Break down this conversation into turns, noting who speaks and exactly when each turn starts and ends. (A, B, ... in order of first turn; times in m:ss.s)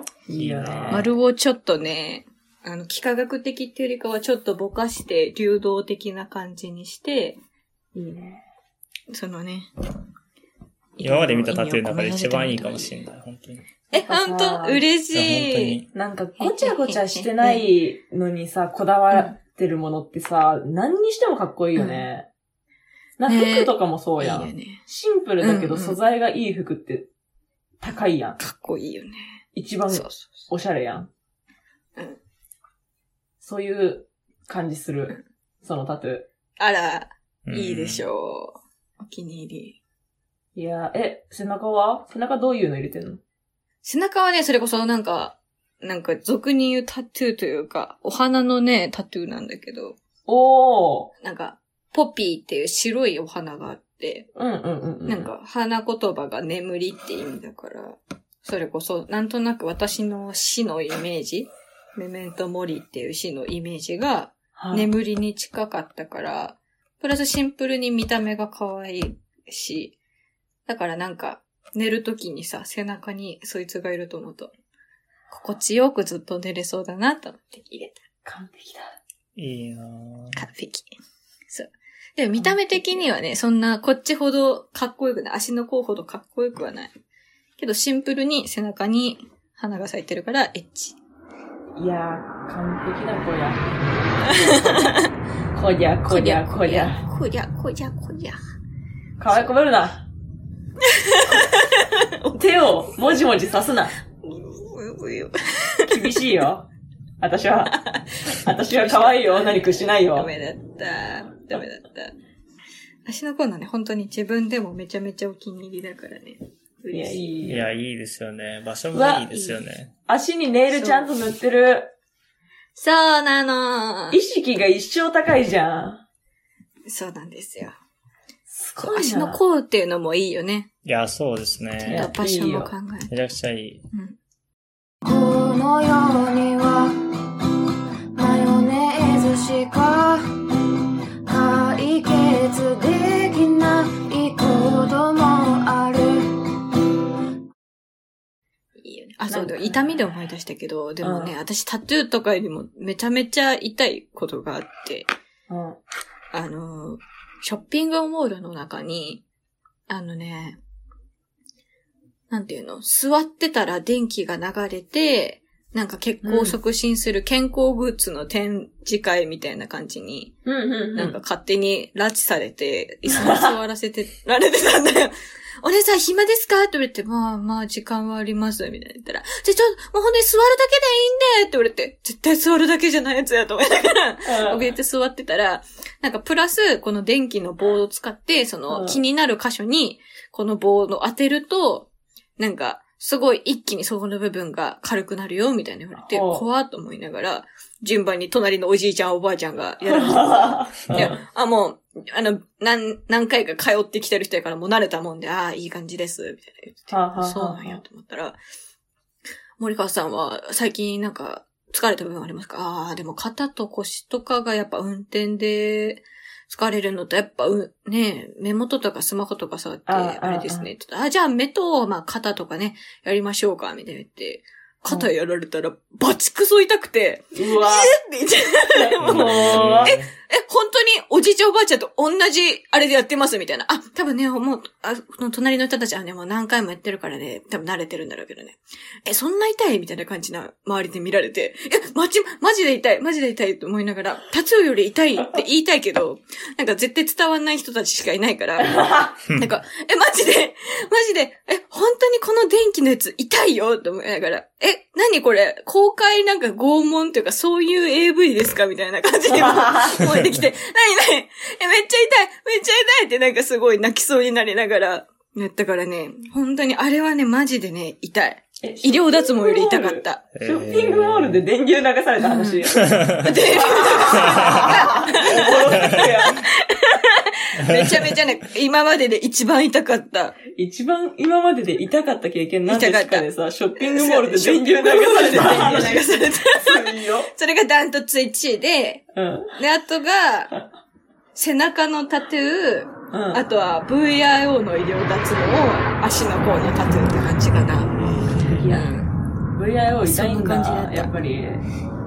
0:00.3-0:01.1 A
0:00.4-0:01.1 B
0:00.9-0:07.4 C
0:07.9-0:08.4 A
0:09.1-0:09.7 C
0:11.0-0:13.0 C
0:11.0-0:13.7 B
0:13.9-0:14.8 A
0:13.9-0:15.8 C
0:15.1-0:15.9 B
0:15.9-0:22.3 A
0:16.4-0:17.7 C
0:21.8-0:22.1 C
0:23.2-0:27.1 A
0:23.3-0:24.8 C
0:25.4-0:26.0 C
0:27.8-0:28.4 A
0:28.4-0:29.4 C
0:29.6-0:31.1 A
0:29.9-0:30.5 C
0:33.4-0:36.3 A
0:36.6-0:39.8 C
0:37.4-0:38.0 B
0:40.6-0:43.2 A
0:43.8-0:50.0 C
0:50.3-0:51.1 A
0:51.2-0:54.3 C
0:54.4-0:55.3 A
0:55.1-1:10.0 C
1:04.6-1:04.9 A
1:10.7-1:14.5 C
1:15.3-1:18.0 C
1:18.2-1:19.0 A
1:19.4-1:20.4 B
1:20.3-1:20.9 C
1:21.5-1:26.9 C
1:22.4-1:23.0 A
1:27.6-1:31.0 C
1:31.8-1:33.7 A
1:34.3-1:35.1 C
1:35.6-1:37.0 A
1:36.1-1:38.4 C
1:39.2-1:40.1 A
1:40.8-1:42.4 C
1:42.4-1:43.9 A
1:44.1-1:46.1 C
1:45.9-1:46.7 A
1:47.2-1:47.8 A
1:47.7-1:52.1 C
1:48.3-1:50.3 A
1:53.1-1:57.3 C
1:56.9-1:57.7 A
1:57.4-1:59.9 B
1:58.9-1:59.3 A
1:59.3-1:59.6 C
2:00.1-2:01.9 A
2:00.7-2:01.1 C
2:02.8-2:04.2 C
2:04.1-2:06.0 A
2:06.9-2:07.8 C
2:08.5-2:09.4 A
2:08.8-2:10.7 C
2:10.8-2:12.1 B
2:11.8-2:13.1 C
2:11.9-2:12.7 A
2:13.1-2:13.8 B
2:15.0-2:17.0 D
2:18.2-2:20.4 D
2:21.3-2:26.6 D
2:28.8-2:35.1 C
2:29.3-2:29.8 A
2:31.0-2:31.4 A
2:35.5-2:35.8 A
2:36.3-2:39.2 C
2:39.9-2:40.6 C
2:42.3-2:50.4 C
2:46.2-2:46.6 A
2:50.5-2:51.2 A
2:51.0-3:28.4 C
2:53.1-2:53.6 A
3:04.3-3:04.7 A
3:08.7-3:09.0 A
3:16.0-3:16.4 A
3:19.9-3:21.2 A
3:26.9-3:27.8 A
3:29.6-4:30.2 C
3:39.9-3:40.7 A
3:47.4-3:47.9 A
3:48.8-3:50.0 A
3:49.0-3:50.1 B
4:19.3-4:20.0 A
4:28.6-4:36.4 A
4:30.4-4:31.4 B
4:32.2-4:40.4 C
4:32.8-4:33.4 B
4:34.2-4:34.7 B
4:35.8-4:36.1 B
4:37.7-4:38.1 B
4:40.5-4:47.3 A
4:42.7-4:43.3 C
4:43.8-4:50.5 C
4:49.1-4:49.5 A
4:51.4-4:58.0 C
4:53.1-4:53.4 A
4:58.0-4:58.6 B
4:58.6-4:59.0 A
4:58.7-4:59.1 C
4:59.5-5:01.6 A
5:00.0-5:01.2 C